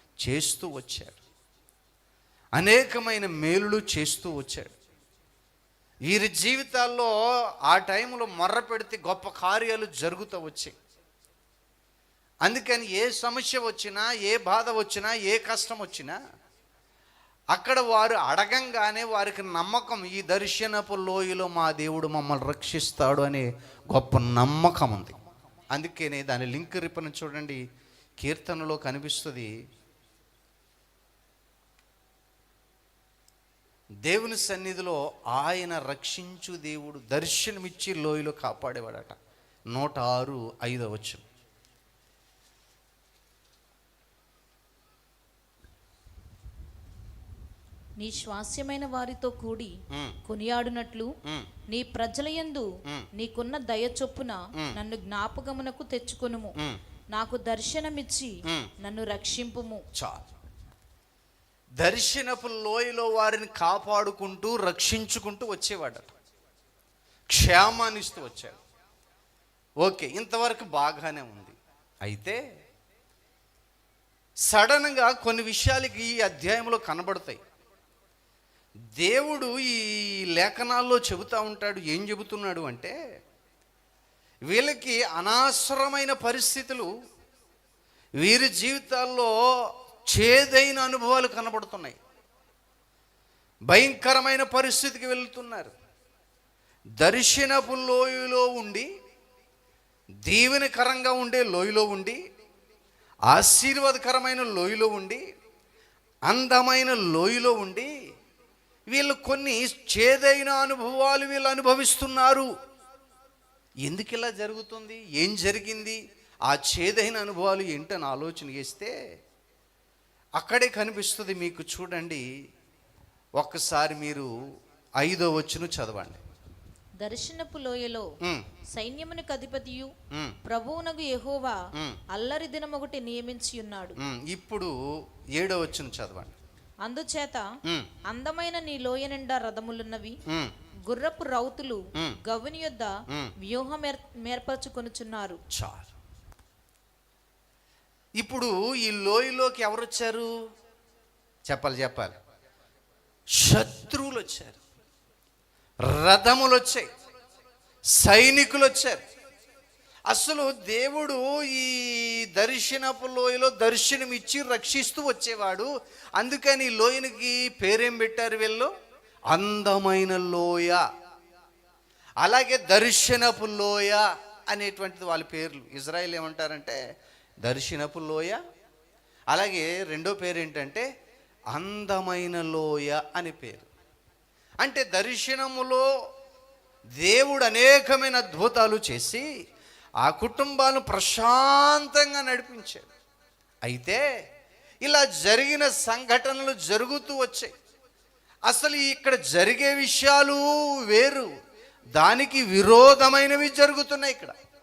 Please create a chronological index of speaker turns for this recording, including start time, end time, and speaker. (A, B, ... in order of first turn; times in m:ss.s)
0:00.2-0:01.2 A
0:02.6-0:04.7 A
0:06.1-0:07.1 A
0:07.7-0:10.7 A
0:12.4-0:16.2 A
0:17.5-0:25.2 A
0:25.7-0:27.6 A
0:28.2-0:29.5 A
0:34.0-0:39.2 A
0:39.7-0:41.2 A
0:48.0-0:49.7 B
0:49.9-0:50.2 A
0:50.3-0:51.1 B
0:51.7-0:56.5 B
0:57.1-0:59.8 B
0:58.5-0:58.7 A
1:00.0-1:00.3 A
1:01.8-1:06.1 A
1:07.3-1:08.6 A
1:09.8-1:12.4 A
1:14.5-1:17.4 A
1:19.0-1:23.0 A
1:24.5-1:26.9 A
1:28.2-1:29.3 A
1:30.1-1:32.0 A
1:33.7-1:35.7 A
1:37.0-1:38.9 A
1:40.3-1:42.2 A
1:43.3-1:45.2 A
1:46.3-1:47.9 A
1:48.9-1:52.5 A
1:53.9-1:58.9 A
2:00.4-2:02.2 A
2:03.4-2:04.3 A
2:05.0-2:06.2 A
2:07.0-2:08.1 B
2:08.2-2:08.5 A
2:08.7-2:09.9 B
2:10.1-2:10.4 A
2:10.4-2:11.6 B
2:11.8-2:12.0 A
2:12.1-2:14.0 B
2:14.0-2:14.7 A
2:15.4-2:16.3 A
2:16.8-2:17.5 B
2:17.7-2:17.9 A
2:18.1-2:20.2 B
2:20.3-2:20.5 A
2:20.9-2:25.4 B
2:25.5-2:25.9 A
2:28.2-2:30.3 A
2:31.5-2:32.1 A
2:33.4-2:34.6 A
2:35.8-2:36.9 A
2:38.0-2:39.0 A
2:40.1-2:48.7 A
2:49.3-2:50.8 A
2:52.2-2:56.8 A
2:57.4-2:58.4 A
2:59.3-3:00.8 A
3:01.5-3:03.7 A
3:04.6-3:05.8 A
3:07.0-3:09.2 A
3:10.0-3:12.9 A
3:13.6-3:14.0 A
3:14.8-3:17.5 A
3:18.5-3:21.3 A
3:22.0-3:24.3 A